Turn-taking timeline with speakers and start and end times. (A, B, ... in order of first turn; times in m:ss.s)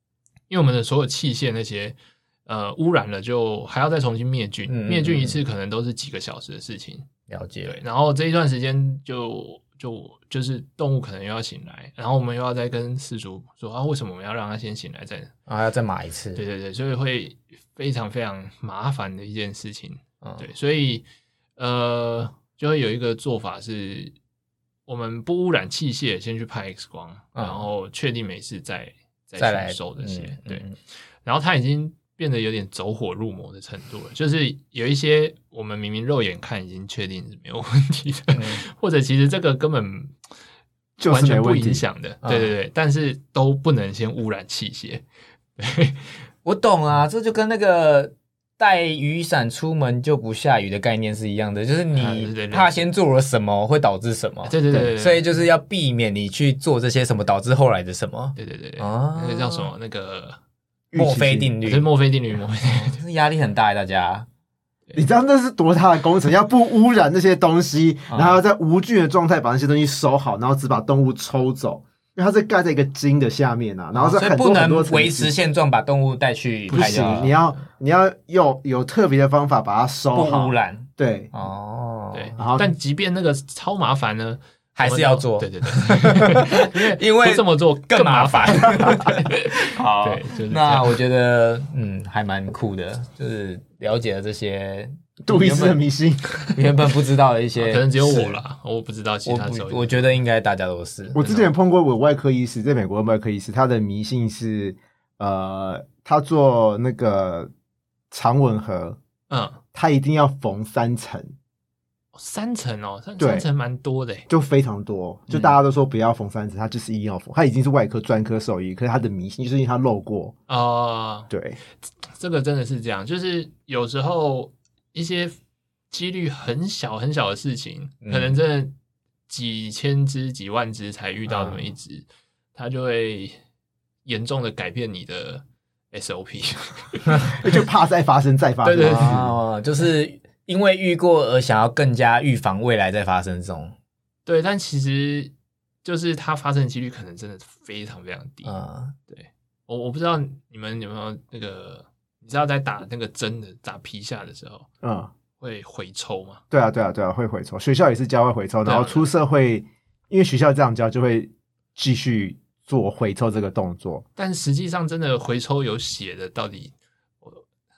0:00.5-0:07.1 A
0:04.7-0:05.4 B
0:07.3-0:07.8 B
0:07.6-0:15.3 A
0:15.5-0:16.4 B
0:16.3-0:21.0 A
0:21.6-0:24.1 A
0:24.9-0:30.6 A
0:27.4-0:27.6 B
0:29.4-0:30.8 B
0:31.2-0:40.2 A
0:38.3-0:38.6 B
0:41.0-0:41.8 C
0:41.1-0:45.0 A
0:42.2-0:42.5 B
0:45.6-0:46.2 A
0:46.4-0:59.7 B
0:51.9-0:52.9 A
0:54.4-0:55.4 A
0:58.4-1:00.4 A
1:00.9-1:01.5 C
1:01.0-1:01.9 B
1:01.6-1:03.0 A
1:02.6-1:04.3 B
1:04.9-1:15.3 C
1:08.1-1:08.4 B
1:13.9-1:17.3 B
1:16.7-1:17.6 A
1:16.7-1:21.3 C
1:20.1-1:22.4 B
1:22.1-1:31.0 A
1:22.4-1:22.7 C
1:24.8-1:35.8 B
1:35.2-1:36.6 C
1:36.5-1:38.4 B
1:37.6-1:40.1 A
1:39.2-1:41.2 B
1:41.1-1:47.5 C
1:41.2-1:41.5 A
1:48.1-1:49.0 C
1:49.3-1:49.6 A
1:49.7-1:51.3 C
1:52.1-1:54.2 A
1:53.2-1:53.4 C
1:54.3-2:00.3 C
2:00.5-2:01.3 A
2:01.3-2:01.6 C
2:02.0-2:05.4 A
2:05.9-2:08.7 A
2:08.0-2:08.4 B
2:09.3-2:13.4 A
2:14.0-2:17.4 A
2:17.3-2:19.3 C
2:18.6-2:19.2 A
2:18.8-2:23.7 B
2:24.2-2:25.3 A
2:25.8-2:28.5 A
2:28.4-2:28.9 B
2:29.1-2:34.7 A
2:34.8-2:35.1 C
2:35.4-2:36.4 A
2:36.5-2:44.0 C
2:38.6-2:39.1 A
2:44.2-2:46.7 A